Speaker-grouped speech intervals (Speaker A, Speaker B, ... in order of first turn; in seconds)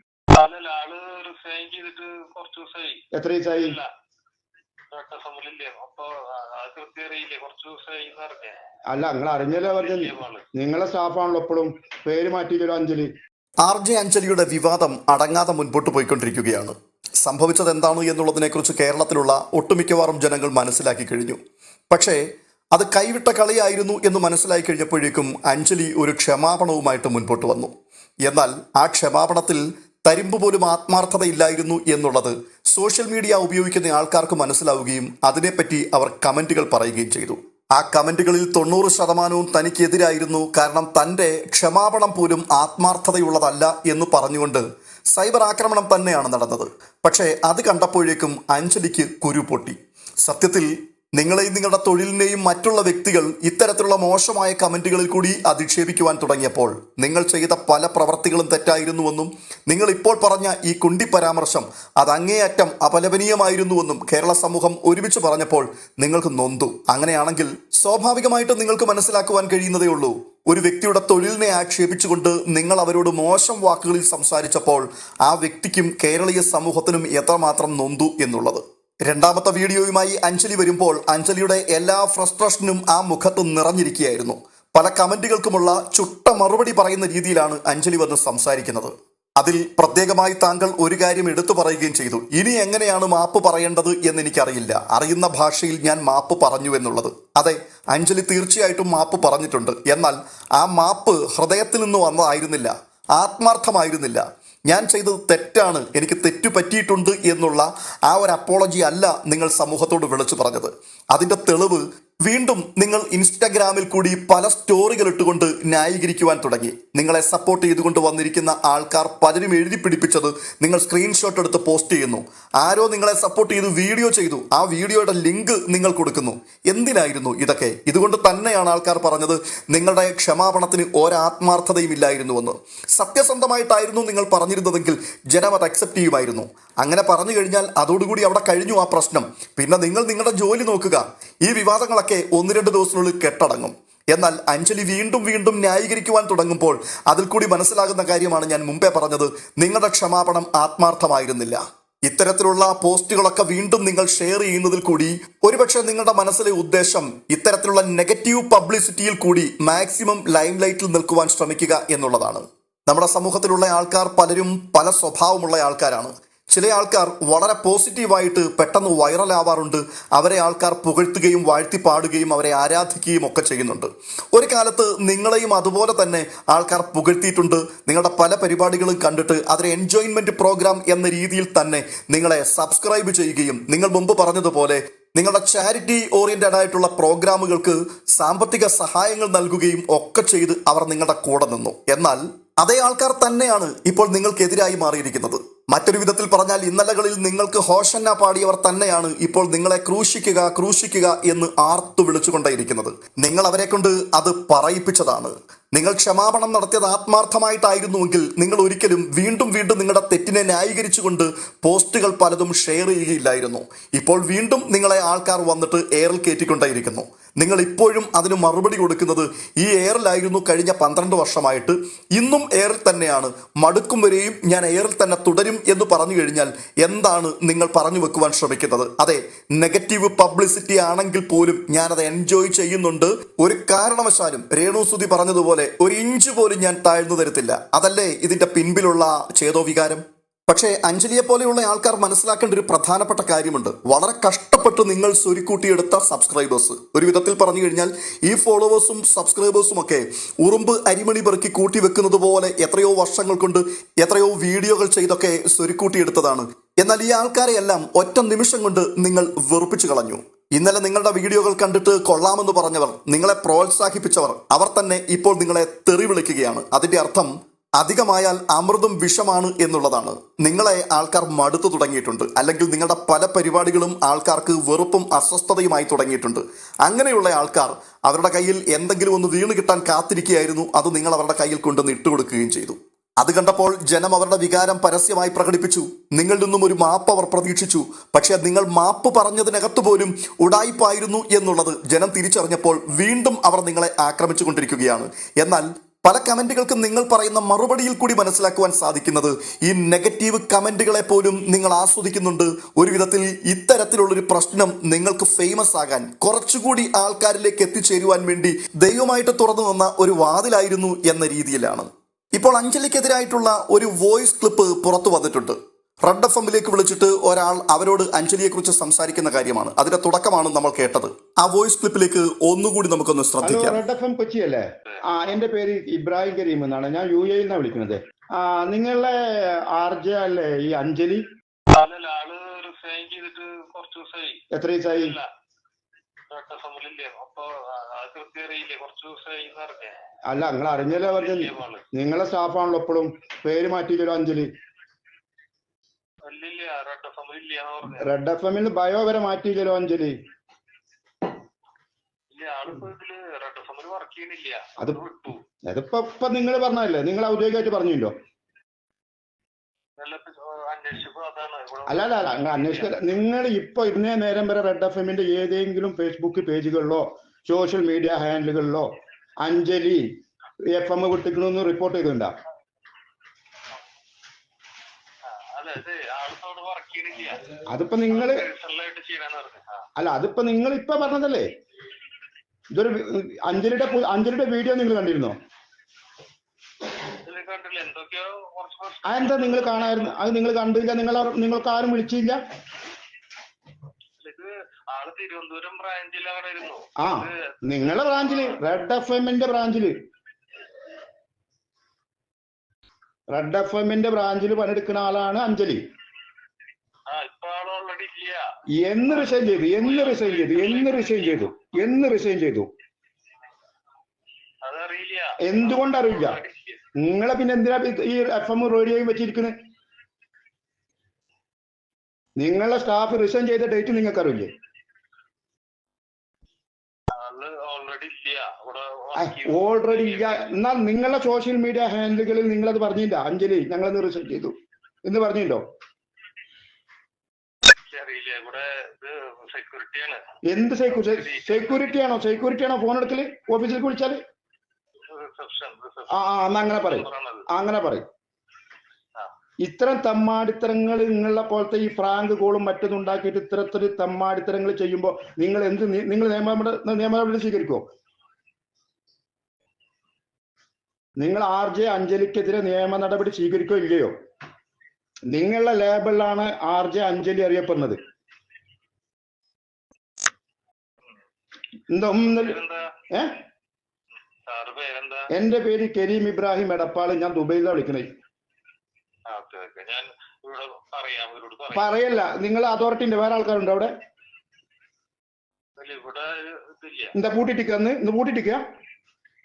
Speaker A: 0.3-3.9, 4.9-8.6, 9.4-10.4, 331.7-335.3, 336.3-340.0, 340.8-341.8, 346.2-348.1, 352.3-355.4, 360.0-362.9, 375.2-379.8, 387.1-390.1, 394.2-398.6, 407.1-408.4, 409.2-411.6, 414.6-416.8, 427.1-430.5, 437.9-440.2, 440.9-441.9, 445.1-447.4, 472.2-472.8, 474.5-475.3, 479.3-481.9, 485.8-487.1
Speaker B: 3.1-3.8, 8.9-13.1, 323.4-331.2, 334.5-335.2, 340.3-344.5, 347.9-350.1, 355.7-358.1, 361.9-368.9, 369.4-370.0, 370.7-372.3, 377.7-378.4, 380.0-381.4, 382.7-385.3, 389.0-392.4, 397.0-399.9, 403.3-405.8, 408.8-412.7, 415.4-416.4, 417.0-419.5, 422.4-424.5, 429.1-434.5, 435.0-435.6, 440.4-444.2, 446.1-448.0, 449.6-457.8, 461.2-464.1, 465.3-468.0, 471.9-472.6, 475.3-478.1, 481.7-483.9, 487.1-488.6
Speaker C: 13.6-21.4, 21.9-22.2, 22.7-27.7, 28.2-323.8